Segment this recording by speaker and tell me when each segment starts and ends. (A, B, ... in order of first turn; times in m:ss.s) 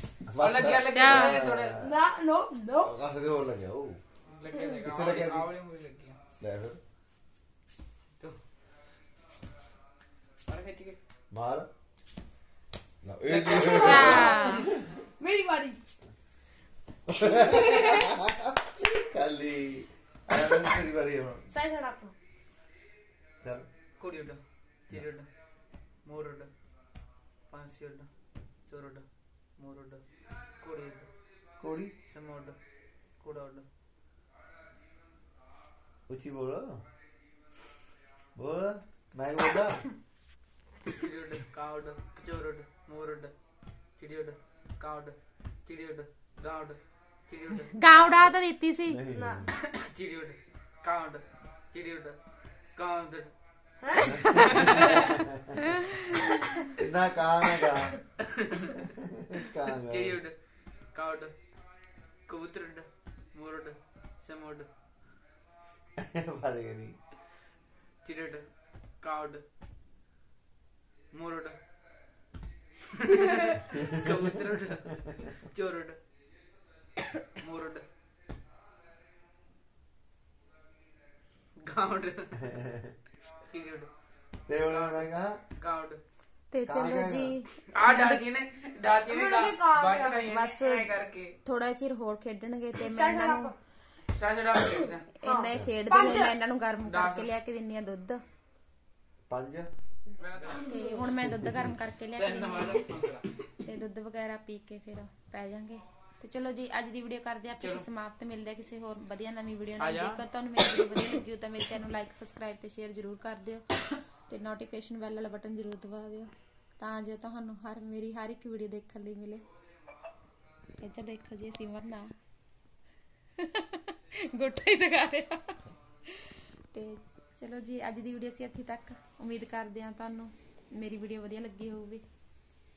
0:00.3-0:02.0 A
0:00.4-0:01.8 B
0:00.9-0:01.4 C
0:01.8-0:02.9 D
0:02.8-0:04.0 A
0:04.3-0:06.2 B
0:04.8-0:05.5 A
0:06.4-0:06.8 A
0:10.5-0:11.0 B
0:11.3-0:11.7 A
0:13.0-0:14.4 A
0:13.3-0:14.7 B
0:13.8-0:14.7 C
0:14.0-0:15.8 D
0:17.1-0:21.5 A
0:17.3-0:18.1 D
0:21.5-0:22.1 D
0:24.0-0:25.3 B
0:26.0-0:26.5 B
0:27.5-0:28.1 B
0:28.7-0:29.0 B
0:29.6-0:30.0 B
0:30.6-0:31.1 B
0:31.6-0:31.9 A
0:32.1-0:32.6 B
0:33.2-0:33.6 B
0:36.1-0:36.8 A
0:38.4-0:39.9 A
0:40.8-0:43.3 B
0:44.0-0:48.4 B
0:47.7-0:49.0 C
0:48.9-0:49.6 A
0:49.1-0:49.5 D
0:49.6-0:52.2 B
0:52.8-0:53.3 B
0:54.0-0:55.2 B
0:54.1-0:55.6 A
0:54.2-0:54.5 C
0:55.7-0:56.0 C
0:56.8-0:58.0 A
0:58.3-0:58.9 B
0:58.9-1:00.2 A
0:59.6-1:00.4 B
1:00.9-1:01.3 B
1:02.3-1:04.7 B
1:06.0-1:07.0 A
1:08.0-1:08.5 B
1:09.0-1:09.4 B
1:11.1-1:11.6 B
1:13.0-1:16.0 B
1:17.4-1:17.8 B
1:21.6-1:22.5 B
1:22.4-1:22.9 A
1:23.5-1:23.9 B
1:24.5-1:25.4 A
1:24.7-1:26.0 B
1:26.5-1:28.2 C
1:26.6-1:27.4 A
1:27.7-1:31.4 B
1:29.1-1:30.2 D
1:30.3-1:30.9 C
1:31.4-1:33.5 C
1:32.8-1:33.6 D
1:34.1-1:35.1 B
1:34.8-1:36.4 D
1:35.2-1:38.2 C
1:36.9-1:37.3 B
1:39.3-1:39.7 A
1:40.2-1:40.7 B
1:40.4-1:41.3 D
1:40.6-1:42.9 C
1:41.3-1:41.7 A
1:42.2-1:43.3 B
1:43.6-1:53.6 C
1:47.6-1:47.9 B
1:49.8-1:50.2 B
1:54.3-1:59.4 C
2:00.8-2:02.1 C
2:03.4-2:12.0 C